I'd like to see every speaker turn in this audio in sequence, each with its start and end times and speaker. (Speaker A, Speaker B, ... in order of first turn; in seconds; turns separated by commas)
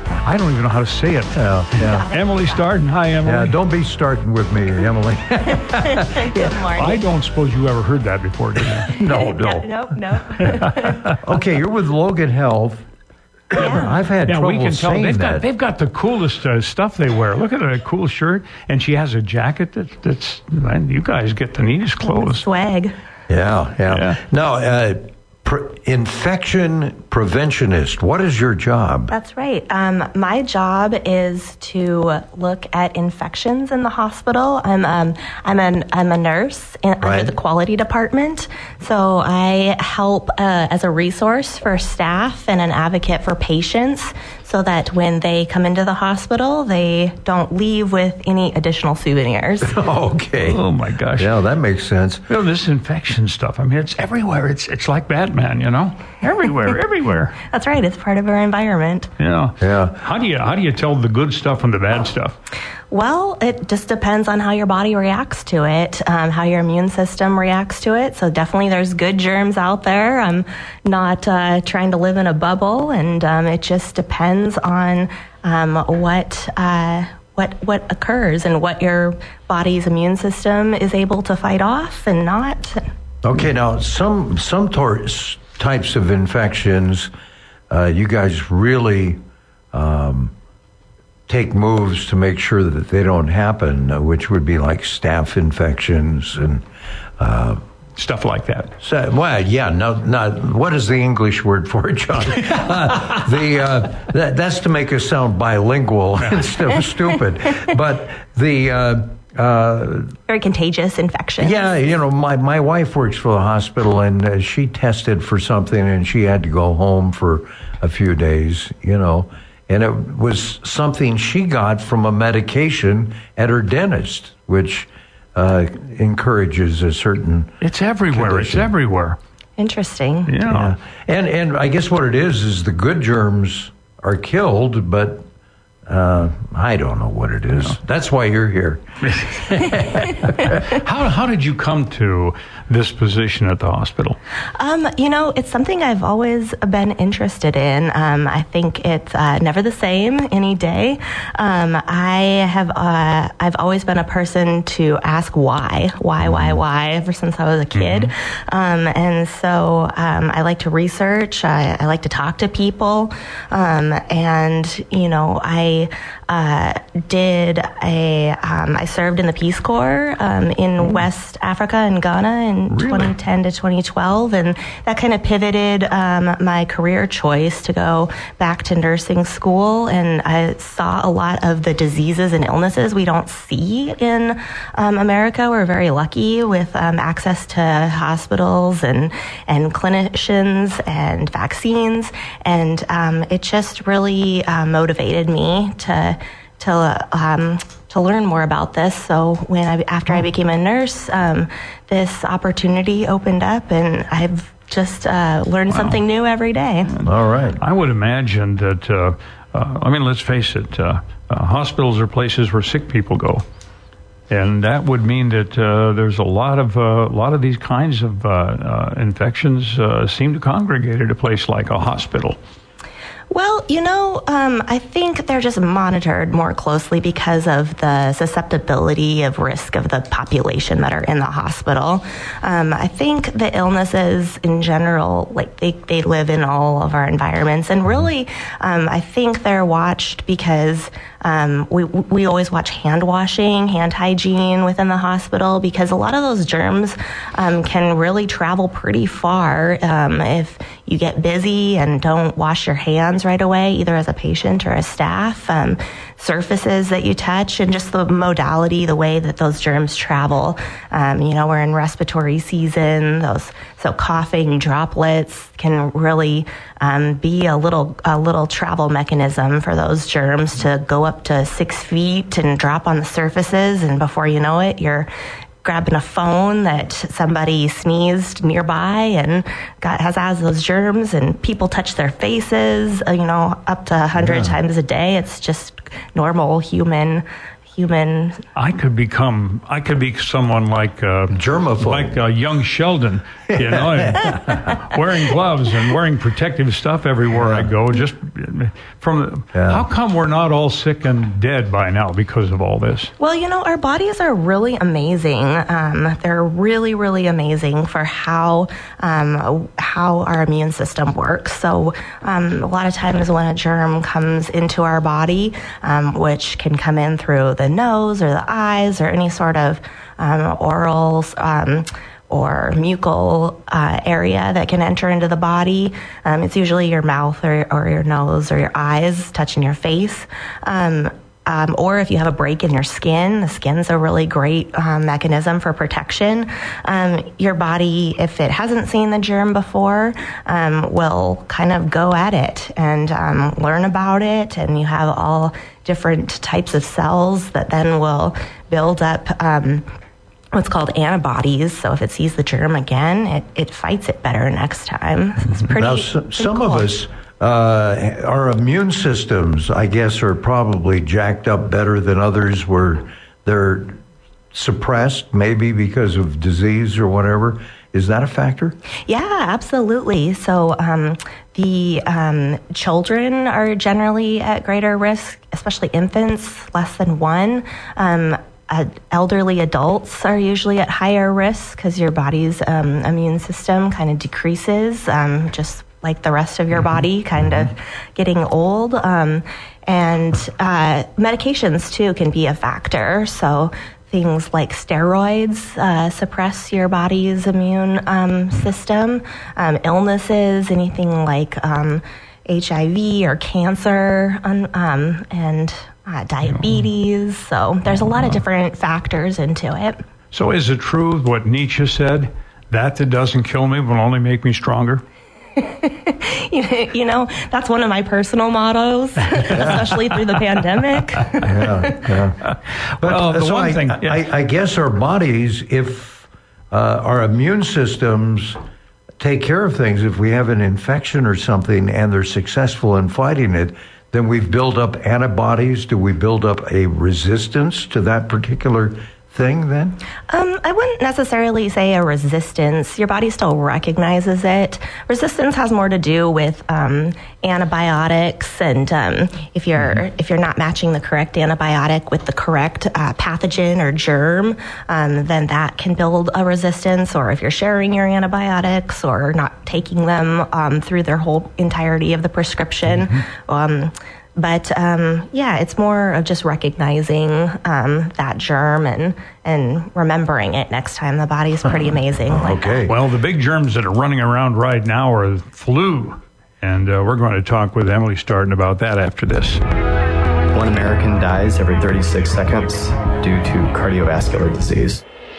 Speaker A: 0.2-3.5, Speaker B: 1.3-2.0, Speaker C: 1.8-2.6, Speaker B: 3.2-6.5, Speaker C: 5.7-7.0, Speaker A: 6.8-8.9, Speaker B: 8.8-9.8, Speaker C: 9.1-11.1, Speaker B: 11.2-12.8, Speaker B: 13.5-15.4, Speaker C: 13.5-13.9, Speaker A: 14.3-22.4, Speaker C: 22.0-22.9, Speaker B: 23.3-29.1, Speaker A: 23.9-24.2, Speaker C: 29.1-49.8, Speaker B: 37.0-37.3, Speaker B: 49.6-50.6, Speaker A: 50.4-51.3, Speaker B: 51.1-52.2, Speaker A: 52.3-57.4, Speaker C: 57.4-59.1, Speaker A: 59.2-62.4, Speaker B: 59.6-60.0, Speaker C: 62.9-82.8, Speaker B: 83.2-87.1, Speaker B: 87.7-89.2, Speaker B: 89.7-90.3, Speaker B: 91.3-96.6, Speaker B: 97.2-97.6, Speaker A: 98.0-98.7, Speaker B: 98.8-110.2, Speaker C: 110.3-111.6, Speaker B: 111.4-127.6, Speaker A: 127.6-129.2, Speaker B: 128.1-128.7, Speaker C: 129.6-130.4, Speaker A: 130.3-130.7, Speaker B: 130.5-135.2, Speaker B: 135.9-138.8, Speaker A: 139.1-144.2, Speaker B: 139.3-140.2, Speaker C: 144.6-206.9, Speaker B: 156.2-156.6, Speaker A: 157.8-158.1, Speaker A: 172.7-173.1, Speaker A: 205.7-206.0, Speaker A: 206.9-213.4, Speaker B: 207.0-207.6, Speaker A: 214.3-222.4, Speaker C: 223.3-275.1, Speaker C: 275.6-288.4, Speaker B: 284.2-284.6, Speaker A: 288.6-303.1, Speaker B: 291.3-292.2, Speaker B: 293.5-294.6, Speaker B: 297.4-297.7, Speaker B: 299.5-299.9, Speaker C: 303.2-349.9, Speaker C: 350.5-356.9, Speaker B: 355.8-364.0, Speaker B: 364.5-368.8, Speaker C: 369.1-410.0, Speaker A: 410.3-415.0, Speaker C: 415.6-422.0, Speaker B: 419.5-419.9, Speaker B: 421.4-422.4, Speaker A: 422.9-424.2, Speaker B: 423.0-428.6, Speaker B: 429.2-440.0, Speaker C: 440.3-472.9, Speaker B: 472.3-473.0, Speaker A: 472.9-479.6, Speaker D: 480.5-485.0